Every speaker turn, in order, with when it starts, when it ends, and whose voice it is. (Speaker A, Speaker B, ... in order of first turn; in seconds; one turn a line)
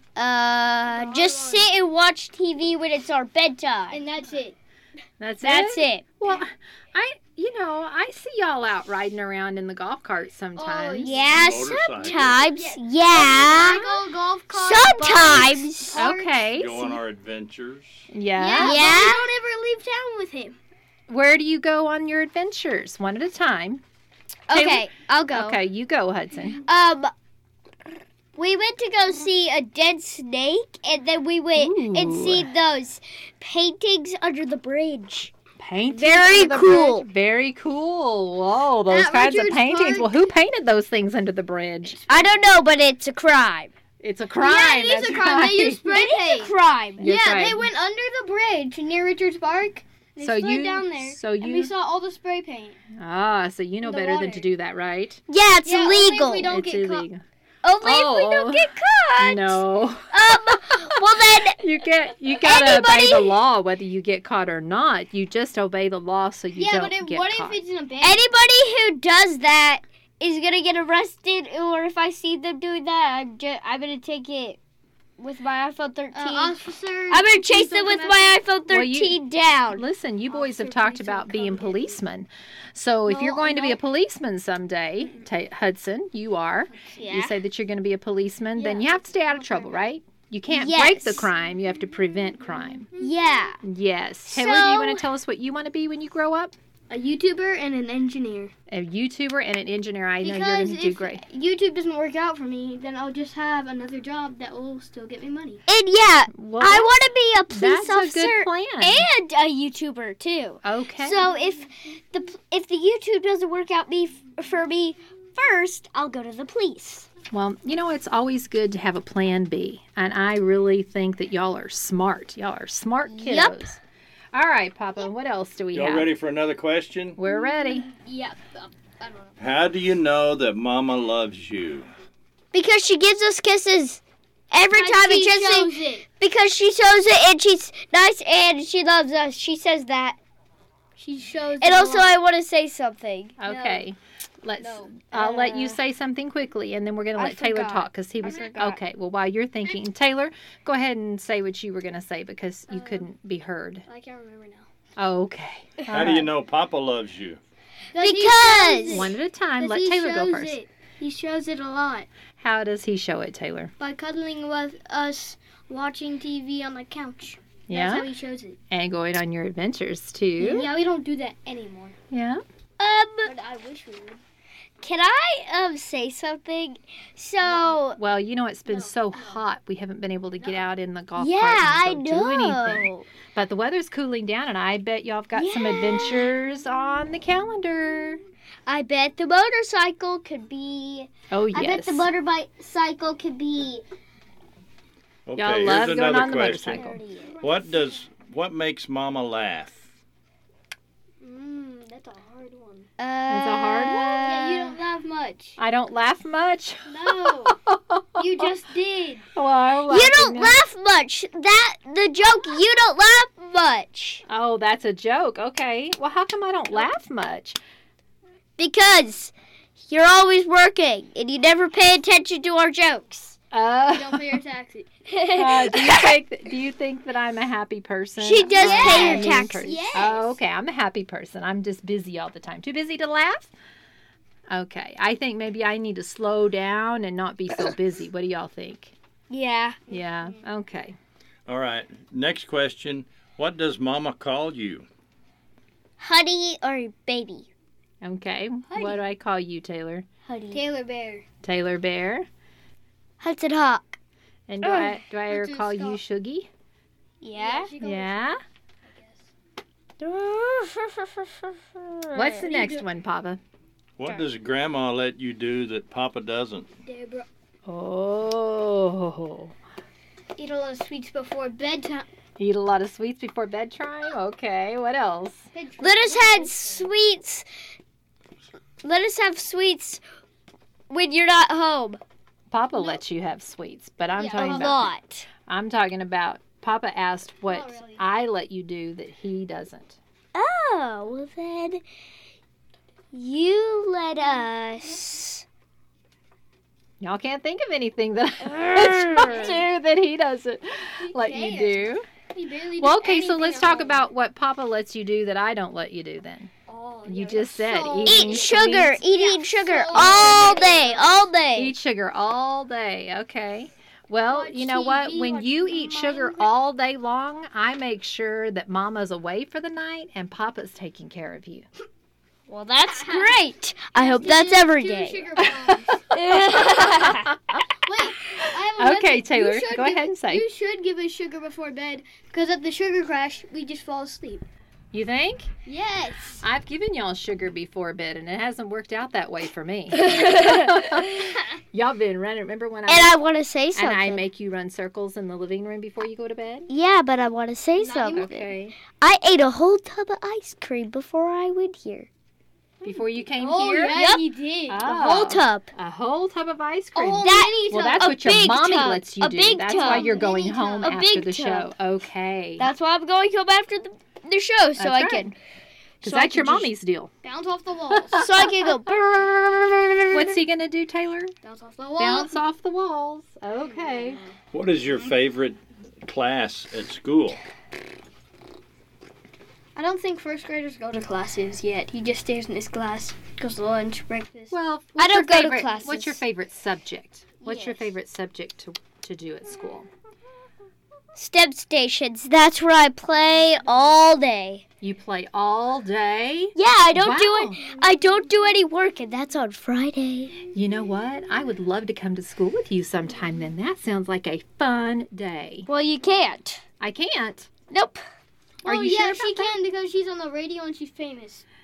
Speaker A: 0.1-4.0
Speaker B: 0.8-1.7
Speaker B: 3.9-4.6
Speaker C: 5.2-11.2
Speaker A: 5.4-6.0
Speaker B: 10.6-11.4
Speaker A: 11.0-13.8
Speaker D: 11.3-12.4
Speaker B: 12.0-16.9
Speaker C: 13.5-14.0
Speaker A: 14.5-16.0
Speaker C: 15.9-17.0
Speaker D: 16.6-18.0
Speaker C: 18.1-18.8
Speaker B: 18.4-20.6
Speaker A: 18.6-19.2
Speaker C: 21.1-23.8
Speaker A: 24.5-25.6
Speaker C: 24.5-26.6
Speaker A: 26.6-27.1
Speaker A: 28.4-35.3
Speaker C: 31.5-32.5
Speaker C: 35.6-42.0
Speaker A: 35.9-37.1
Speaker B: 38.9-40.1
Speaker B: 41.9-42.4
Speaker A: 42.1-43.7
Speaker C: 44.0-45.8
Speaker B: 44.4-52.8
Speaker A: 45.9-47.1
Speaker C: 47.0-47.7
Speaker C: 50.2-51.7
Speaker C: 53.0-55.2
Speaker B: 53.8-54.5
Speaker A: 55.3-56.5
Speaker B: 55.6-57.0
Speaker C: 56.5-57.2
Speaker A: 57.6-61.6
Speaker C: 57.8-60.9
Speaker C: 61.5-67.6
Speaker A: 62.4-63.3
Speaker B: 66.5-68.2
Speaker A: 68.0-74.6
Speaker A: 75.2-76.6
Speaker B: 76.1-78.4
Speaker A: 77.1-79.8
Speaker C: 78.7-79.2
Speaker C: 79.7-92.9
Speaker B: 80.3-82.0
Speaker B: 83.1-83.8
Speaker A: 87.0-87.3
Speaker B: 88.5-89.9
Speaker A: 90.5-91.3
Speaker A: 93.0-93.6
Speaker C: 93.6-96.5
Speaker A: 94.3-95.0
Speaker B: 96.9-98.5
Speaker C: 98.7-101.2
Speaker B: 100.2-105.6
Speaker A: 105.7-117.1
Speaker C: 106.3-107.0
Speaker C: 107.5-109.0
Speaker C: 110.6-111.2
Speaker C: 117.3-123.8
Speaker A: 123.1-123.7
Speaker C: 124.3-126.1
Speaker D: 125.7-127.2
Speaker C: 127.2-127.9
Speaker B: 127.2-129.4
Speaker D: 129.4-131.9
Speaker A: 132.5-140.2
Speaker B: 134.7-136.1
Speaker B: 141.0-142.1
Speaker A: 141.6-143.4
Speaker C: 143.4-153.8
Speaker B: 143.4-143.8
Speaker B: 144.6-145.8
Speaker A: 147.2-148.7
Speaker B: 148.2-148.7
Speaker B: 152.7-153.1
Speaker B: 153.8-154.7
Speaker C: 155.0-156.3
Speaker D: 155.9-157.4
Speaker B: 157.9-162.1
Speaker A: 158.0-159.1
Speaker C: 158.9-160.6
Speaker C: 162.4-163.7
Speaker B: 163.8-168.6
Speaker C: 167.7-168.1
Speaker C: 168.7-170.7
Speaker B: 170.4-172.0
Speaker C: 172.1-172.4
Speaker A: 172.8-173.3
Speaker B: 173.2-174.2
Speaker A: 174.8-178.0
Speaker B: 177.4-177.8
Speaker C: 177.9-188.2
Speaker B: 178.7-179.4
Speaker B: 180.4-180.7
Speaker A: 181.2-183.1
Speaker A: 185.3-186.3
Speaker A: 188.7-193.8
Speaker C: 191.3-192.1
Speaker D: 195.3-196.8
Speaker C: 195.3-197.0
Speaker A: 196.7-197.4
Speaker B: 197.3-197.8
Speaker D: 197.4-199.9
Speaker B: 201.2-202.9
Speaker A: 203.0-204.8
Speaker C: 203.3-204.2
Speaker B: 204.2-205.6
Speaker C: 205.6-208.5
Speaker B: 206.9-207.6
Speaker B: 208.2-209.3
Speaker C: 209.3-210.6
Speaker A: 209.9-214.2
Speaker C: 214.3-217.6
Speaker A: 218.6-219.3
Speaker A: 219.9-223.4
Speaker C: 223.5-224.4
Speaker B: 223.9-224.9
Speaker A: 225.1-225.9
Speaker C: 225.3-233.5
Speaker A: 228.2-230.1
Speaker B: 228.5-230.3
Speaker C: 234.5-238.9
Speaker A: 239.3-239.8
Speaker B: 239.9-240.4
Speaker C: 239.9-240.9
Speaker D: 241.5-244.8
Speaker A: 246.0-247.5
Speaker C: 248.0-250.1
Speaker B: 248.7-249.0
Speaker A: 250.2-250.6
Speaker B: 250.5-251.2
Speaker C: 251.4-252.3
Speaker A: 253.2-253.9
Speaker C: 254.5-256.5
Speaker A: 254.6-254.9
Speaker B: 254.8-256.0
Speaker A: 257.2-257.7
Speaker B: 257.3-258.4
Speaker C: 257.8-258.4
Speaker B: 258.9-259.3
Speaker A: 260.0-262.5
Speaker C: 262.1-263.4
Speaker B: 262.4-262.8
Speaker D: 264.0-266.7
Speaker B: 266.8-267.3
Speaker C: 267.6-269.5
Speaker B: 270.4-272.1
Speaker C: 272.4-275.5
Speaker B: 275.5-276.8
Speaker A: 275.8-277.4
Speaker A: 278.8-280.0
Speaker A: 280.9-282.0
Speaker C: 282.5-284.9
Speaker B: 284.1-284.9
Speaker A: 284.3-285.3
Speaker C: 285.4-290.0
Speaker B: 287.4-288.0
Speaker A: 290.3-291.8
Speaker A: 293.1-295.4
Speaker C: 297.0-302.1
Speaker A: 298.4-299.6
Speaker B: 301.0-304.0
Speaker C: 302.8-306.5
Speaker B: 306.7-311.2
Speaker C: 307.1-309.0
Speaker A: 308.0-311.7
Speaker C: 309.9-310.6
Speaker C: 311.5-321.6
Speaker B: 314.2-316.5
Speaker A: 322.5-325.2
Speaker B: 323.0-323.3
Speaker B: 323.9-326.0
Speaker C: 325.4-327.6
Speaker A: 326.1-327.3
Speaker B: 327.8-334.4
Speaker C: 328.8-330.4
Speaker C: 334.9-335.5
Speaker B: 335.6-336.4
Speaker C: 336.4-343.1
Speaker A: 339.9-340.9
Speaker A: 342.9-344.2
Speaker C: 343.7-346.7
Speaker A: 346.7-348.4
Speaker B: 347.8-348.5
Speaker C: 348.1-348.7
Speaker A: 349.0-352.1
Speaker C: 352.8-354.1
Speaker B: 352.8-355.2
Speaker A: 353.9-354.2
Speaker C: 354.7-362.7
Speaker A: 354.8-355.7
Speaker B: 356.9-358.1
Speaker A: 357.2-360.2
Speaker B: 359.6-361.0
Speaker A: 360.8-361.7
Speaker A: 362.6-365.3
Speaker C: 364.8-365.3
Speaker A: 366.0-366.7
Speaker C: 366.0-367.1
Speaker B: 367.2-368.2
Speaker C: 367.9-368.4
Speaker A: 368.2-370.4
Speaker C: 370.1-371.3
Speaker B: 371.4-372.4
Speaker C: 372.0-374.2
Speaker B: 373.6-374.4
Speaker D: 374.5-377.4
Speaker B: 379.8-384.6
Speaker C: 384.5-389.9
Speaker A: 385.0-386.2
Speaker B: 387.4-387.9
Speaker A: 391.1-394.6
Speaker C: 394.8-397.6
Speaker A: 396.5-400.4
Speaker C: 400.5-405.7
Speaker A: 405.7-406.6
Speaker C: 406.8-407.5
Speaker A: 407.7-408.0
Speaker B: 408.6-411.4
Speaker C: 408.6-409.6